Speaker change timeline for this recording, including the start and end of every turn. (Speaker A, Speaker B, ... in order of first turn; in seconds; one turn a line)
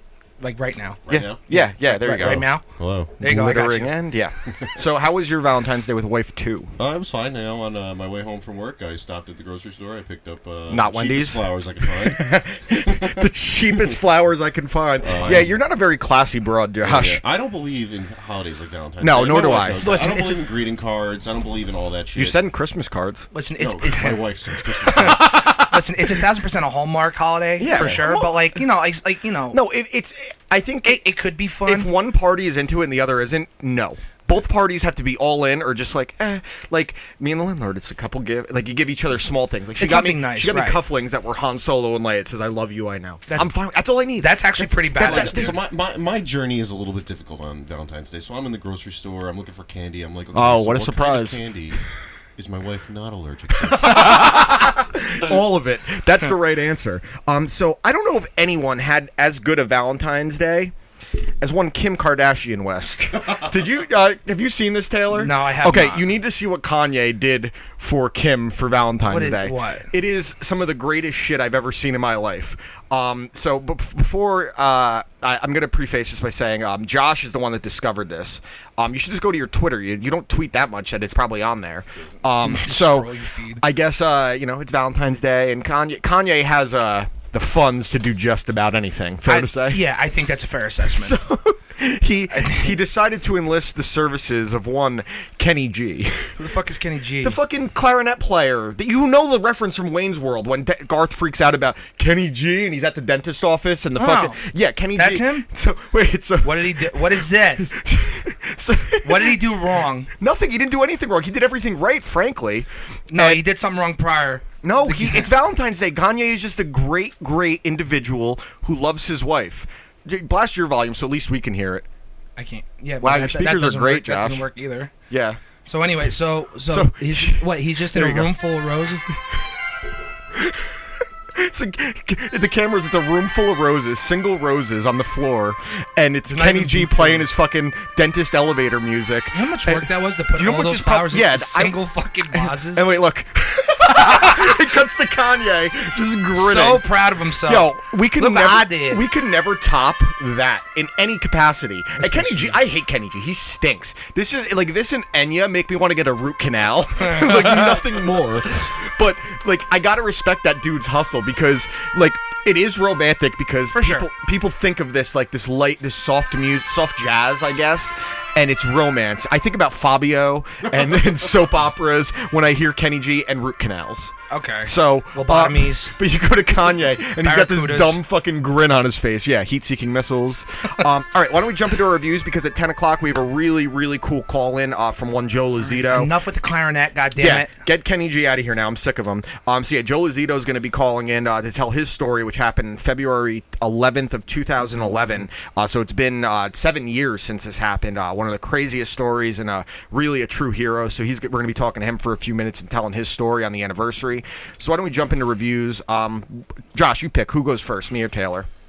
Speaker A: 0.4-2.6
Speaker B: 1.1-1.4
Speaker C: 1.1-2.5
Speaker B: 2.2-3.1
Speaker A: 3.1-3.9
Speaker C: 3.2-6.7
Speaker B: 6.8-13.9
Speaker C: 10.7-17.2
Speaker B: 15.0-15.6
Speaker A: 15.1-15.5
Speaker B: 16.8-22.4
Speaker C: 19.0-19.9
Speaker A: 19.8-20.4
Speaker C: 22.1-23.3
Speaker A: 23.3-24.3
Speaker B: 23.6-25.4
Speaker A: 24.8-29.6
Speaker C: 24.9-25.7
Speaker C: 27.6-28.6
Speaker B: 27.7-28.0
Speaker C: 29.5-31.1
Speaker A: 30.8-31.9
Speaker C: 31.6-45.6
Speaker A: 39.8-40.8
Speaker A: 43.3-43.5
Speaker A: 44.2-45.5
Speaker B: 45.0-51.8
Speaker C: 50.3-51.4
Speaker B: 52.4-54.7
Speaker C: 53.5-60.7
Speaker C: 61.4-89.8
Speaker A: 65.2-66.0
Speaker A: 69.0-69.9
Speaker A: 82.4-83.6
Speaker A: 89.2-91.2
Speaker C: 90.9-96.4
Speaker A: 92.3-92.7
Speaker A: 96.4-97.4
Speaker C: 97.2-109.6
Speaker A: 104.0-104.4
Speaker A: 104.9-105.5
Speaker A: 106.4-107.8
Speaker A: 109.0-110.1
Speaker C: 110.2-113.4
Speaker A: 113.1-115.3
Speaker C: 114.6-121.9
Speaker A: 122.4-124.9
Speaker C: 123.0-124.5
Speaker C: 125.1-125.4
Speaker A: 125.6-129.0
Speaker C: 126.7-128.3
Speaker C: 130.3-141.8
Speaker A: 136.3-137.3
Speaker A: 139.3-142.8
Speaker C: 142.3-146.9
Speaker A: 143.9-144.5
Speaker A: 146.3-149.0
Speaker C: 147.4-186.1
Speaker A: 152.0-152.6
Speaker A: 157.0-157.8
Speaker A: 163.7-164.1
Speaker A: 174.3-175.9
Speaker A: 177.2-178.0
Speaker A: 185.6-187.5
Speaker C: 187.2-208.5